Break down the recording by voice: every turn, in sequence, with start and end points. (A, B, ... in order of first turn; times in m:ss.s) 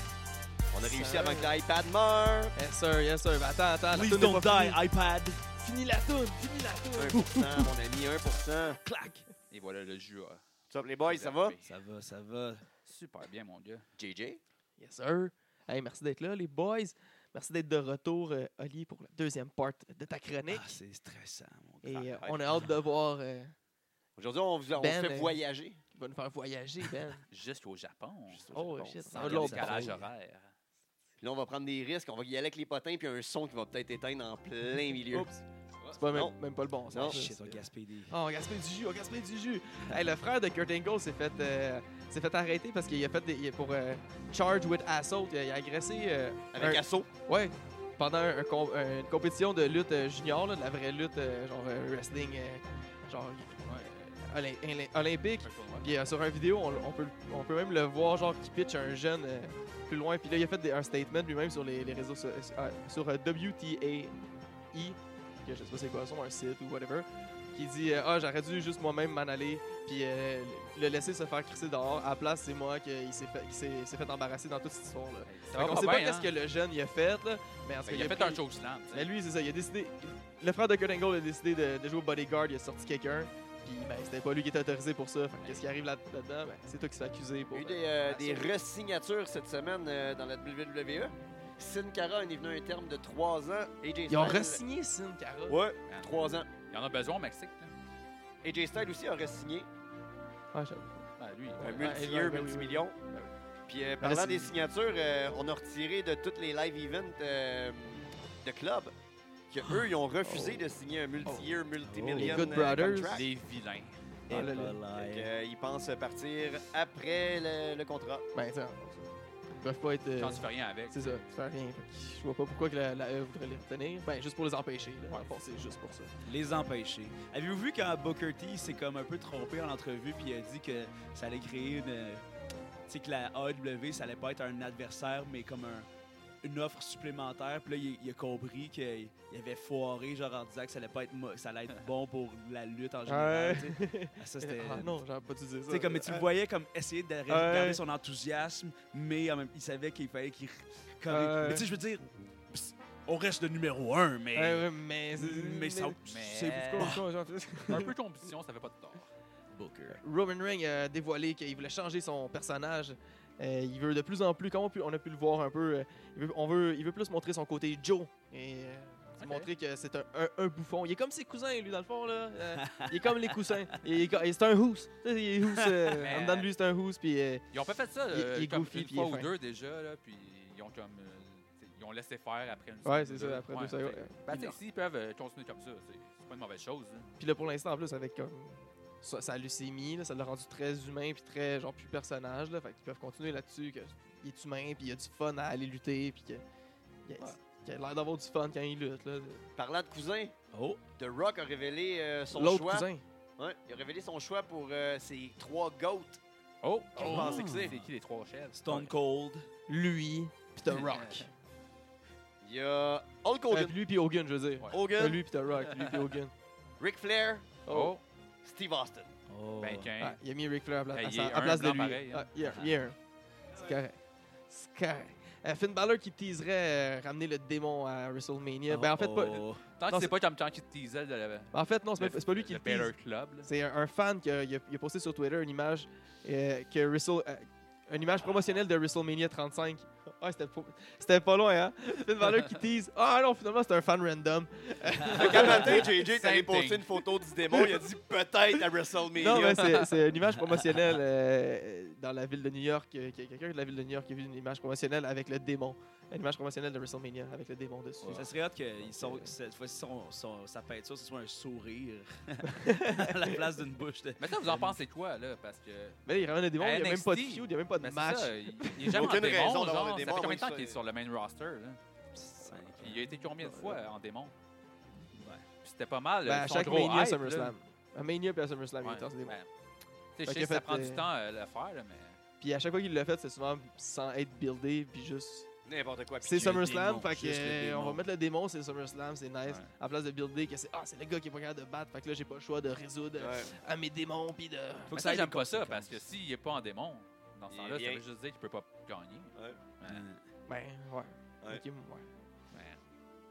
0:00.7-0:02.5 A
0:00.8-0:01.6 B
0:02.5-0:04.8 B
0:03.9-0:05.4 C
0:05.6-0:07.7 B
0:06.9-0:08.8 A
0:08.8-0:09.2 C
0:09.5-0:10.4 D
0:10.7-0:11.6 A
0:11.0-0:11.7 D
0:11.6-0:12.6 C
0:12.8-0:13.8 D
0:14.0-0:14.4 A
0:14.8-0:20.8 B
0:20.5-0:22.8 C
0:21.8-0:23.5 B
0:24.2-0:25.8 A
0:24.8-0:25.4 B
0:25.9-0:27.2 B
0:27.3-0:30.5 D
0:28.3-0:29.8 A
0:28.5-0:30.0 B
0:29.1-0:30.0 C
0:31.2-0:35.3 A
0:35.1-0:35.4 B
0:35.8-0:36.3 A
0:35.9-1:04.2 B
0:36.9-0:37.2 A
0:37.0-0:38.1 C
0:46.5-0:47.1 A
0:53.6-0:54.0 D
0:55.4-0:55.9 D
1:04.7-1:28.5 B
1:15.2-1:16.3 D
1:17.8-1:19.1 D
1:27.5-1:34.6 A
1:34.1-1:35.6 B
1:35.5-1:36.5 A
1:35.9-1:37.7 D
1:38.4-1:39.7 A
1:40.5-1:41.1 B
1:41.2-1:42.0 D
1:41.6-1:43.3 B
1:41.6-1:43.0 A
1:43.7-1:48.9 A
1:44.0-1:44.5 B
1:49.5-1:53.2 A
1:50.2-1:50.7 B
1:51.2-1:51.5 B
1:51.8-1:52.5 C
1:52.1-1:53.2 B
1:53.1-1:54.2 D
1:54.3-1:55.3 C
1:54.3-1:54.8 B
1:54.9-1:58.3 A
1:58.3-2:06.1 B
2:00.2-2:01.2 D
2:06.2-2:12.3 C
2:12.9-2:15.9 C
2:16.4-2:25.0 C
2:23.1-2:26.3 B
2:25.7-2:37.0 C
2:27.3-2:27.8 B
2:31.1-2:31.6 B
2:34.3-2:37.9 B
2:36.0-2:37.0 D
2:37.6-2:39.1 D
2:39.5-2:40.0 C
2:39.9-2:57.4 B
2:49.2-2:49.5 D
2:52.6-2:53.6 C
2:55.6-2:55.8 C
2:56.0-2:56.5 D
2:57.5-3:07.1 D
2:58.1-2:59.3 B
3:02.8-3:04.6 B
3:07.2-3:16.4 B
3:17.0-3:19.4 B
3:19.6-3:20.3 A
3:20.5-3:20.8 C
3:21.0-3:26.2 A
3:22.3-3:23.0 B
3:26.6-3:28.9 D
3:26.9-3:27.7 A
3:27.0-3:27.9 C
3:28.5-3:29.5 C
3:29.7-3:31.3 B
3:30.7-3:31.3 D
3:32.4-3:33.8 A
3:33.5-3:36.3 B
3:34.6-3:34.8 D
3:34.7-3:35.2 A
3:35.6-3:36.0 D
3:36.8-3:37.6 A
3:37.6-3:37.9 B
3:37.7-3:38.0 D
3:38.4-3:39.1 A
3:39.3-3:39.9 C
3:39.6-3:40.2 D
3:40.0-3:43.0 B
3:40.9-3:42.8 D
3:43.5-3:50.1 B
3:48.7-3:49.7 C
3:49.8-3:53.5 D
3:51.5-3:52.9 B
3:53.4-4:05.8 B
4:05.1-4:07.0 D
4:05.1-4:09.8 A
4:09.1-4:18.3 B
4:18.0-4:18.3 D
4:18.1-4:24.8 C
4:18.8-4:19.3 B
4:22.5-4:23.4 B
4:24.2-4:26.0 D
4:26.0-4:29.1 B
4:26.6-4:31.8 D
4:28.9-4:30.8 A
4:32.2-4:33.1 C
4:32.5-4:33.8 B
4:32.8-4:34.3 D
4:35.1-4:35.5 C
4:35.6-4:37.5 D
4:36.2-4:39.4 B
4:38.8-4:39.5 D
4:40.2-4:42.2 D
4:40.2-4:41.0 B
4:42.4-4:45.5 B
4:45.6-4:46.5 A
4:46.2-4:55.0 B
4:46.3-4:48.0 C
4:49.4-4:49.7 D
4:53.2-4:53.5 A
4:54.9-4:56.0 C
4:54.9-5:00.0 D
4:57.5-4:58.0 A
4:59.8-5:00.2 C
5:00.5-5:02.1 B
5:02.5-5:02.8 D